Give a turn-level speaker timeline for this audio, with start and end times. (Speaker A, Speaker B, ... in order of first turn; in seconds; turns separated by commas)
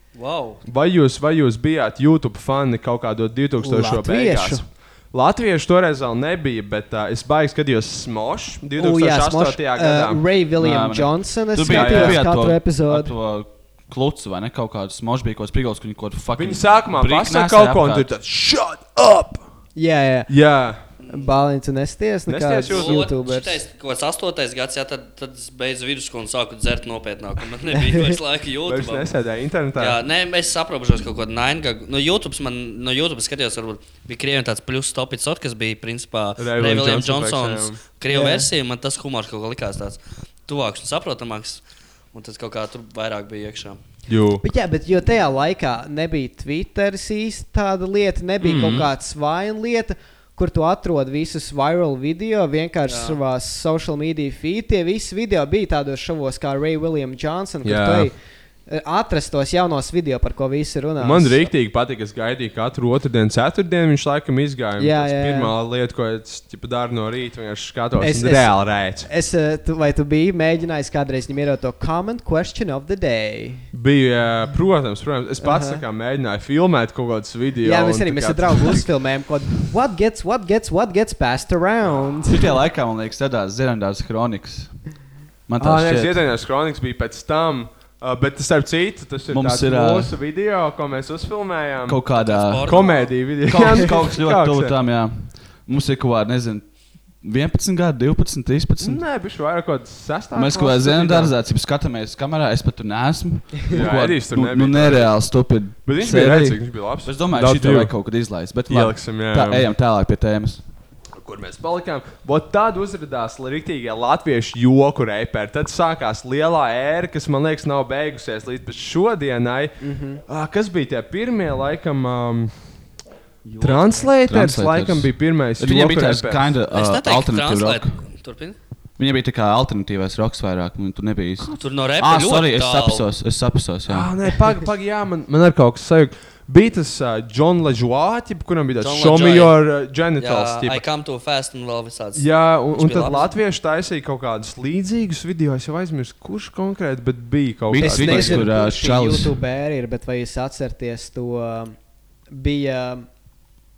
Speaker A: 0.2-0.6, Speaker B: 0.7-10.2, Speaker C: 3.6-4.6, Speaker C: 8.8-13.1, Speaker D: 10.6-18.1, Speaker B: 11.6-12.2, Speaker B: 16.3-19.4, Speaker C: 19.7-20.3, Speaker B: 20.3-20.8, Speaker A: 21.0-21.3, Speaker C: 21.1-23.6, Speaker B: 22.3-23.0, Speaker A: 22.7-29.1, Speaker C: 27.8-28.1, Speaker B: 28.7-30.0, Speaker A: 29.8-41.6, Speaker B: 36.4-37.8, Speaker C: 38.1-38.5, Speaker A: 42.1-43.8, Speaker B: 44.1-44.4, Speaker C: 44.4-58.1, Speaker B: 48.4-48.9, Speaker A: 52.9-53.2, Speaker B: 57.6-58.1, Speaker C: 58.7-61.5, Speaker B: 61.0-69.1, Speaker C: 64.8-65.5, Speaker C: 68.0-73.7, Speaker B: 73.7-78.9, Speaker C: 75.4-75.8, Speaker C: 77.6-82.4, Speaker D: 82.3-84.8, Speaker D: 85.5-86.2, Speaker B: 85.6-92.0, Speaker D: 89.3-90.1, Speaker D: 91.8-96.7, Speaker A: 92.2-93.1, Speaker B: 92.6-94.7, Speaker D: 97.2-99.0, Speaker B: 98.8-101.3, Speaker D: 100.3-110.6, Speaker B: 103.7-105.3, Speaker B: 105.8-107.9, Speaker B: 108.7-109.7, Speaker B: 111.2-122.5, Speaker C: 119.8-120.2, Speaker D: 123.5-127.9, Speaker B: 123.6-126.5, Speaker A: 126.7-128.6, Speaker D: 129.0-134.1, Speaker A: 131.6-133.1, Speaker B: 133.9-140.8, Speaker A: 138.8-139.5, Speaker A: 140.2-143.3, Speaker B: 142.2-148.5, Speaker D: 147.7-149.4, Speaker C: 147.8-151.7, Speaker C: 152.3-153.1